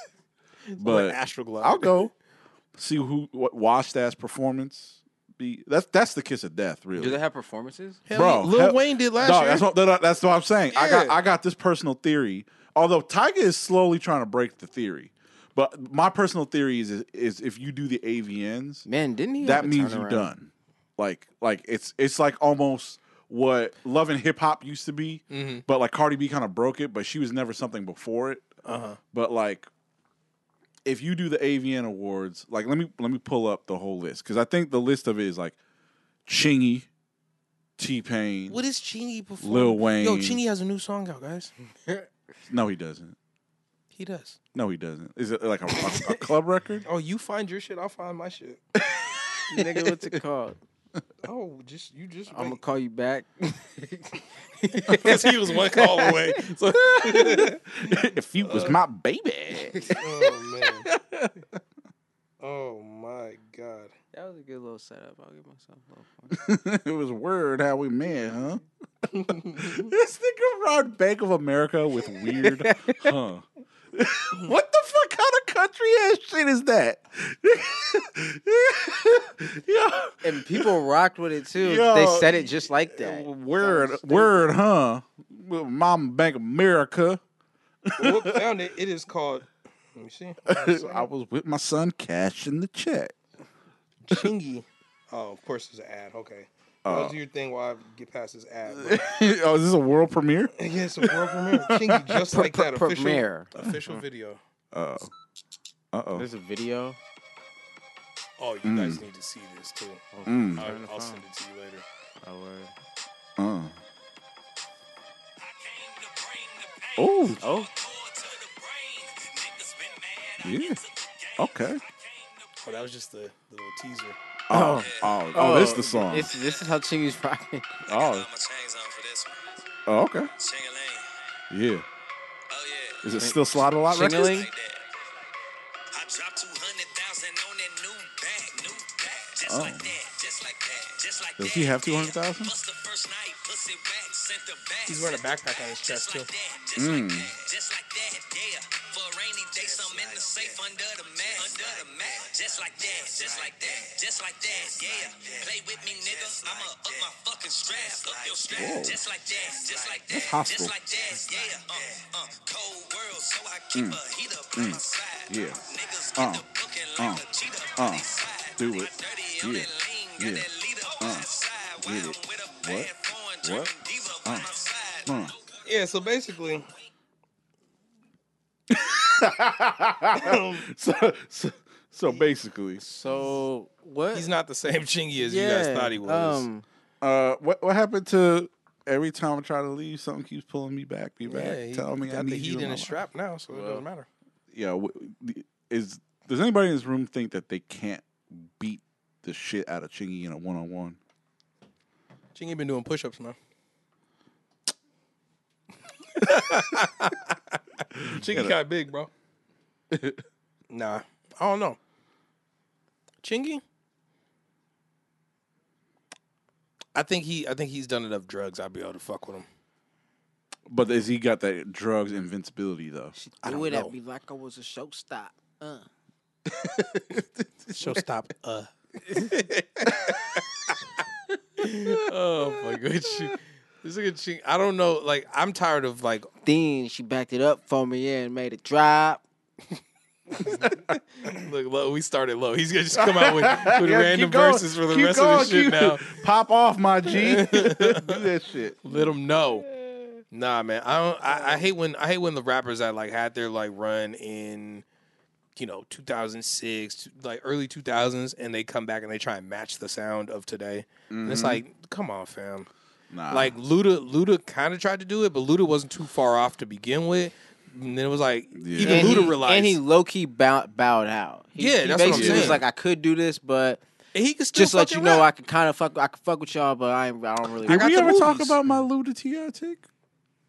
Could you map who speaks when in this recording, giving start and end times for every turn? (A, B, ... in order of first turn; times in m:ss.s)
0:00.7-0:02.0 A
0:00.8-0:02.1 B
0:02.8-0:07.2 B
0:06.9-0:08.0 C
0:08.1-0:09.7 A
0:08.2-0:18.9 B
0:10.7-0:11.2 A
0:18.9-0:20.3 C
0:19.4-0:28.5 B
0:25.3-0:25.6 A
0:28.6-0:29.0 A
0:29.1-0:29.7 B
0:30.8-0:35.6 B
0:36.3-0:36.9 B
0:37.8-0:38.6 B
0:38.5-0:41.5 A
0:39.4-0:40.4 B
0:42.5-0:43.2 B
0:43.9-0:44.4 A
0:44.5-0:46.8 B
0:46.8-0:48.6 A
0:48.9-0:49.8 B
0:49.5-0:50.6 C
0:51.2-0:52.6 A
0:52.3-0:57.4 C
0:54.9-0:57.6 A
0:57.0-1:00.0 B
0:58.4-0:58.8 A
0:59.7-1:00.1 C
1:00.0-1:00.9 A
1:02.4-1:03.9 A
1:04.1-1:06.4 C
1:06.3-1:08.6 B
1:09.1-1:09.8 A
1:09.3-1:20.7 B
1:12.3-1:13.1 C
1:20.2-1:24.5 C
1:21.6-1:27.2 B
1:27.8-1:28.5 B
1:28.0-1:31.1 A
1:30.4-1:33.2 B
1:34.0-1:39.1 A
1:36.8-1:37.2 B
1:38.7-1:42.2 B
1:40.6-1:44.4 A
1:42.3-1:43.5 C
1:43.6-1:44.0 B
1:44.7-1:45.1 B
1:45.9-1:46.3 B
1:46.2-1:47.0 C
1:48.4-1:50.0 A
1:48.6-1:49.0 B
1:50.1-1:51.2 C
1:50.3-1:50.7 B
1:50.6-1:51.8 A
1:52.2-1:52.7 C
1:53.4-1:53.8 B
1:55.4-2:02.8 D
1:57.0-1:57.4 B
1:57.4-1:57.7 C
2:00.4-2:00.8 B
2:01.4-2:01.8 B
2:02.6-2:04.2 A
2:04.5-2:06.3 B
2:04.5-2:07.8 C
2:04.6-2:06.8 D
2:07.9-2:08.3 B
2:07.9-2:09.6 D
2:09.9-2:10.3 B
2:10.4-2:11.2 D
2:11.5-2:11.8 B
2:12.5-2:13.0 D
2:13.0-2:14.5 B
2:13.2-2:14.5 C
2:14.1-2:14.9 D
2:15.9-2:55.6 D
2:19.4-2:19.9 B
2:21.4-2:22.6 B
2:24.9-2:26.3 A
2:26.8-2:27.3 B
2:38.5-2:39.0 B
2:40.1-2:40.8 B
2:43.7-2:44.0 B
2:44.5-2:45.6 B
2:46.2-2:46.4 B
2:47.0-2:47.2 B
2:47.8-2:50.5 B
2:51.0-2:51.3 B
2:51.8-2:52.9 B
2:53.4-2:53.7 B
2:55.1-2:55.4 B
2:55.6-2:56.7 A
2:58.7-3:02.8 B
3:00.2-3:00.6 A
3:02.8-3:04.3 C
3:04.1-3:06.4 A
3:05.2-3:06.6 C
3:07.0-3:13.0 B
3:11.3-3:14.1 A
3:13.5-3:13.8 C
3:14.5-3:21.0 B
3:22.4-3:23.4 A
3:26.2-3:29.1 A
3:27.9-3:28.6 B
3:29.9-3:30.2 B
3:30.7-3:31.8 A
3:33.2-3:33.6 A
3:37.0-3:39.5 A
3:40.7-3:43.2 B
3:43.2-3:45.9 C
3:43.4-3:43.9 A
3:47.7-3:50.4 A
3:51.6-3:56.3 A
3:56.4-3:59.2 C
4:00.4-4:06.2 A
4:02.9-4:08.9 B
4:07.1-4:08.2 A
4:08.8-4:09.7 A
4:10.3-4:14.8 A
4:15.6-4:22.7 A
4:21.1-4:21.6 B
4:23.1-4:23.6 B
4:23.3-4:29.8 A
4:28.6-4:29.4 B
4:28.8-4:33.8 C
4:31.6-4:32.6 A
4:32.0-4:32.6 B
4:34.1-4:35.3 A
4:34.5-4:38.3 C
4:37.6-4:39.9 B
4:37.7-4:38.6 A